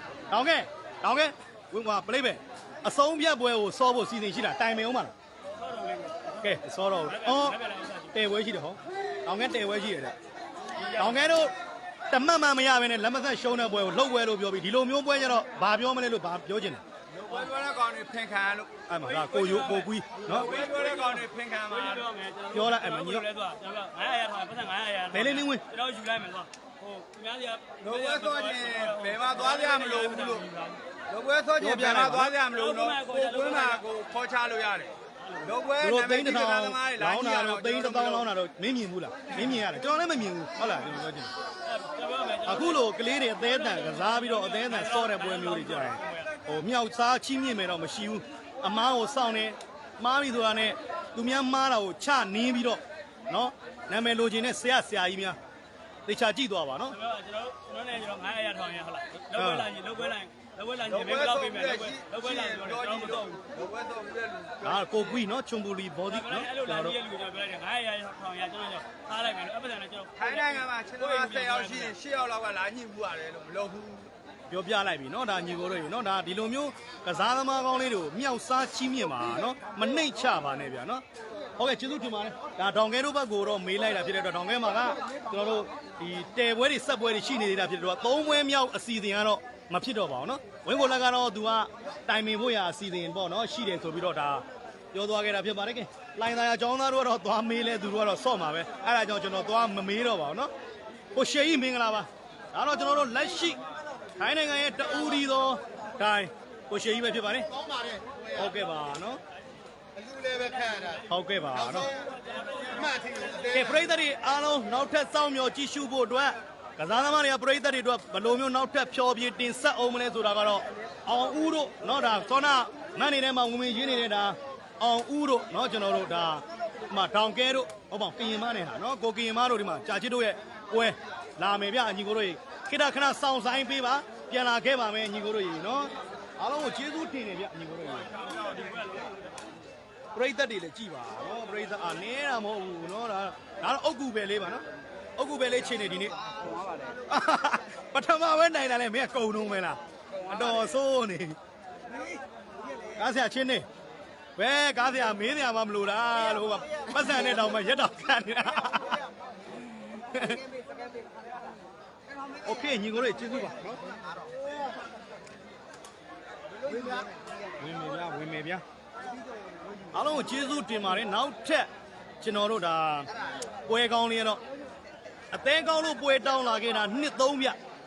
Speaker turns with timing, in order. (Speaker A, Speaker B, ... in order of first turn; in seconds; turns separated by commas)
Speaker A: 0.3-5.1, Speaker B: 5.5-6.4, Speaker A: 6.4-7.6, Speaker B: 7.1-8.1, Speaker A: 8.1-10.1, Speaker B: 10.8-11.1, Speaker A: 10.9-11.5, Speaker A: 12.1-16.8, Speaker C: 17.1-19.7, Speaker A: 18.9-20.5, Speaker B: 19.0-30.8, Speaker C: 20.3-22.1, Speaker A: 22.5-23.2, Speaker A: 25.1-25.6, Speaker C: 27.8-30.4, Speaker C: 31.1-38.3, Speaker A: 31.6-32.4, Speaker B: 32.5-33.8, Speaker B: 35.2-35.5, Speaker A: 35.8-41.3, Speaker B: 41.6-42.8, Speaker A: 42.5-55.4, Speaker B: 43.7-46.3, Speaker A: 56.0-57.0, Speaker B: 56.9-63.4, Speaker A: 59.3-59.7, Speaker C: 60.9-65.2, Speaker A: 64.6-66.9, Speaker B: 66.1-72.0, Speaker C: 70.2-74.1, Speaker A: 74.5-81.0, Speaker A: 81.6-100.5, Speaker A: 101.1-103.6, Speaker A: 104.2-107.5, Speaker A: 108.3-109.2, Speaker B: 110.2-111.0, Speaker A: 111.1-111.9, Speaker B: 112.0-113.3, Speaker A: 113.4-138.1, Speaker B: 138.2-139.2, Speaker A: 140.1-144.6, Speaker A: 145.2-146.2, Speaker A: 147.1-151.4, Speaker A: 152.9-153.7, Speaker A: 154.4-159.0, Speaker A: 160.1-160.4, Speaker A: 162.4-163.8, Speaker A: 167.6-168.6, Speaker A: 169.9-171.7, Speaker A: 172.2-173.1, Speaker A: 173.7-174.4, Speaker A: 175.3-177.6